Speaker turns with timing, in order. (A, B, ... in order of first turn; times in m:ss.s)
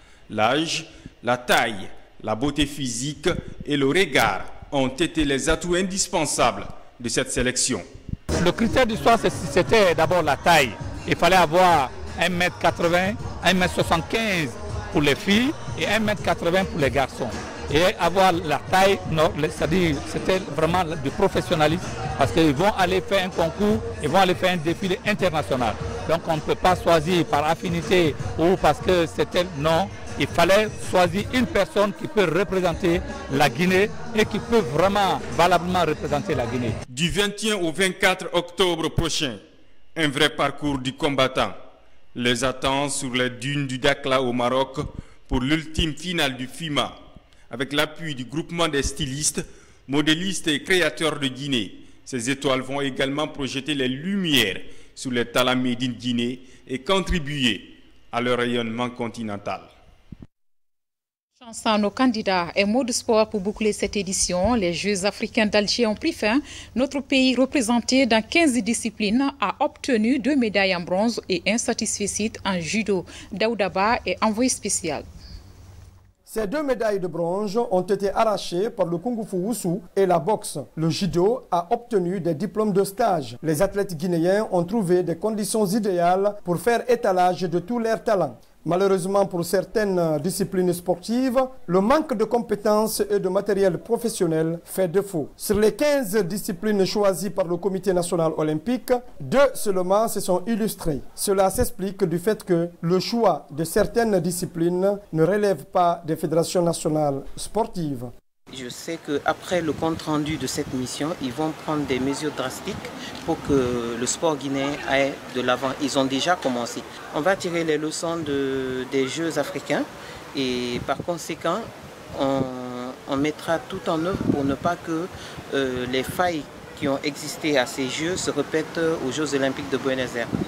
0:00.3-0:07.8 A
0:08.4-0:36.8 B
0:36.9-0:39.4 A
0:40.0-0:41.6 A
0:42.2-0:47.0 A
0:47.5-0:59.7 A
1:01.4-1:15.1 C
1:16.3-1:48.1 D
1:48.6-1:59.8 E
2:00.4-2:01.6 E
2:02.2-2:10.3 E